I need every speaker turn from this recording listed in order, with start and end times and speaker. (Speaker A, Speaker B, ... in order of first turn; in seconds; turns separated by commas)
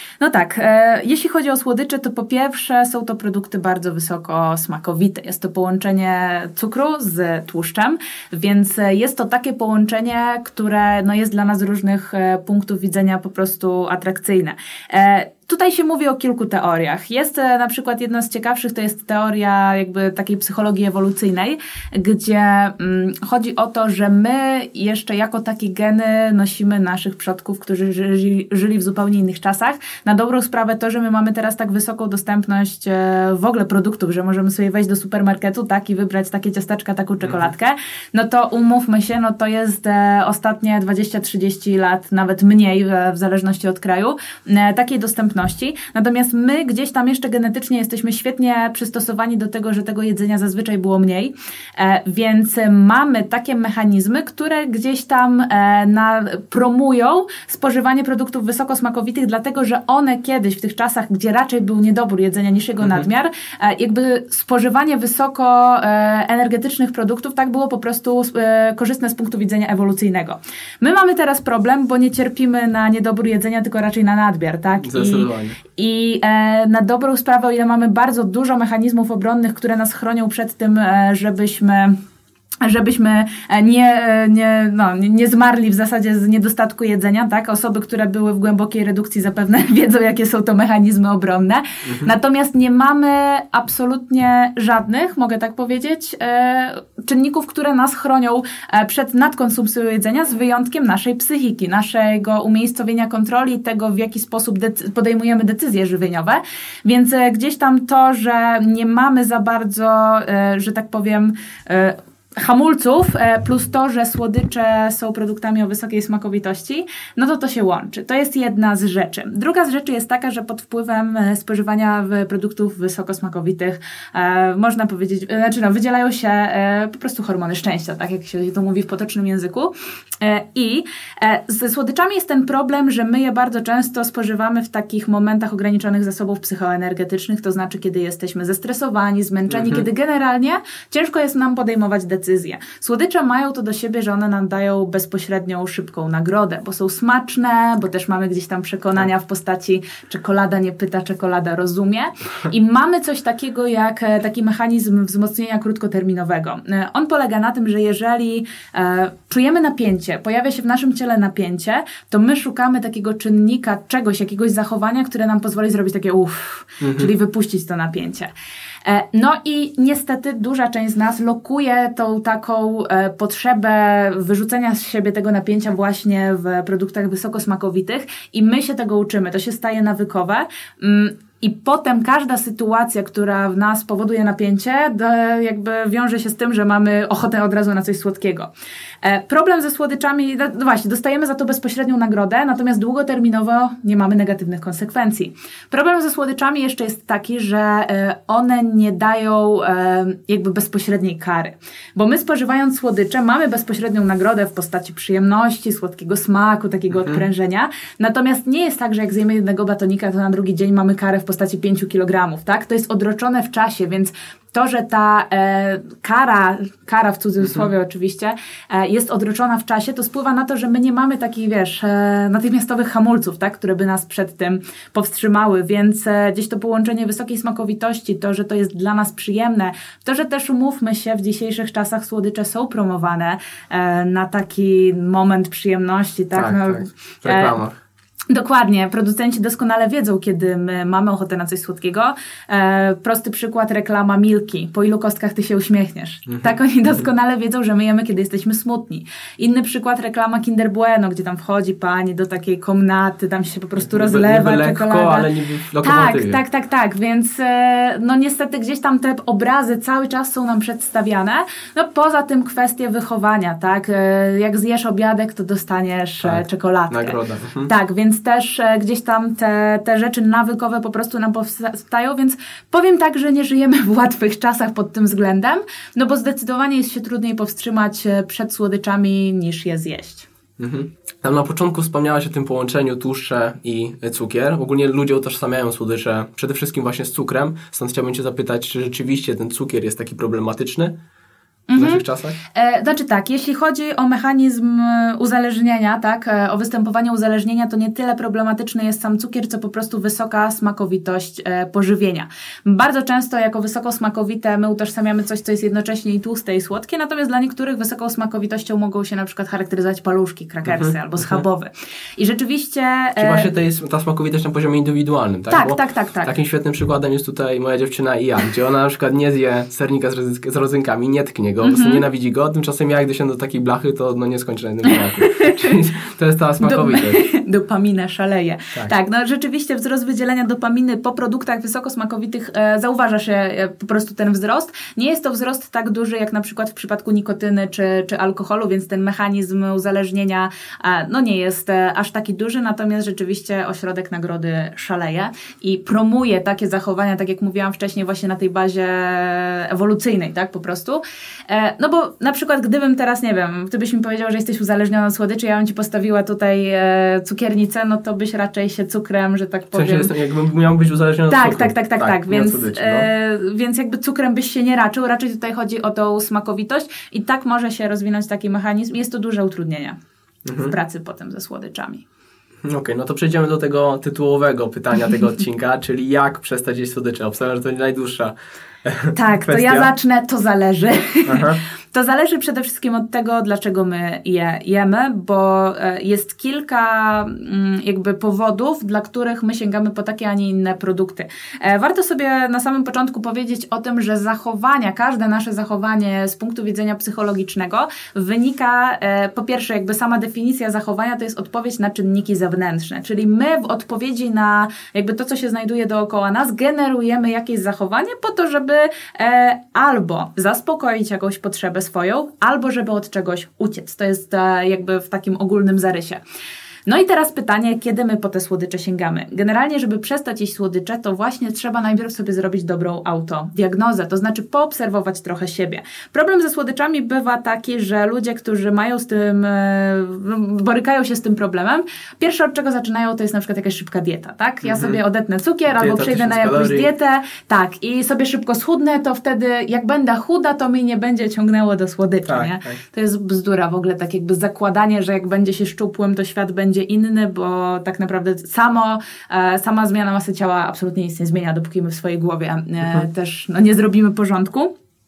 Speaker A: 0.2-82.0, Speaker B: 74.8-75.6, Speaker A: 82.6-168.3, Speaker B: 139.5-139.8, Speaker B: 166.8-167.1, Speaker A: 168.8-188.5, Speaker A: 189.0-237.6, Speaker B: 236.3-237.8, Speaker A: 238.3-255.3, Speaker B: 246.3-246.5, Speaker B: 253.8-256.4, Speaker A: 255.8-280.3, Speaker B: 266.2-267.7, Speaker B: 280.6-290.9, Speaker A: 291.7-313.5, Speaker B: 291.8-292.4, Speaker B: 310.7-311.4, Speaker B: 313.2-327.2, Speaker A: 315.5-316.3, Speaker A: 321.6-322.0, Speaker A: 324.9-325.7, Speaker A: 326.6-360.1, Speaker B: 359.7-363.1, Speaker A: 361.3-370.0, Speaker B: 370.4-370.7, Speaker A: 370.5-372.1, Speaker B: 372.6-379.9, Speaker A: 379.1-416.2, Speaker B: 381.3-381.6, Speaker A: 416.9-454.7, Speaker B: 434.6-435.0, Speaker B: 435.7-436.9, Speaker B: 442.3-442.8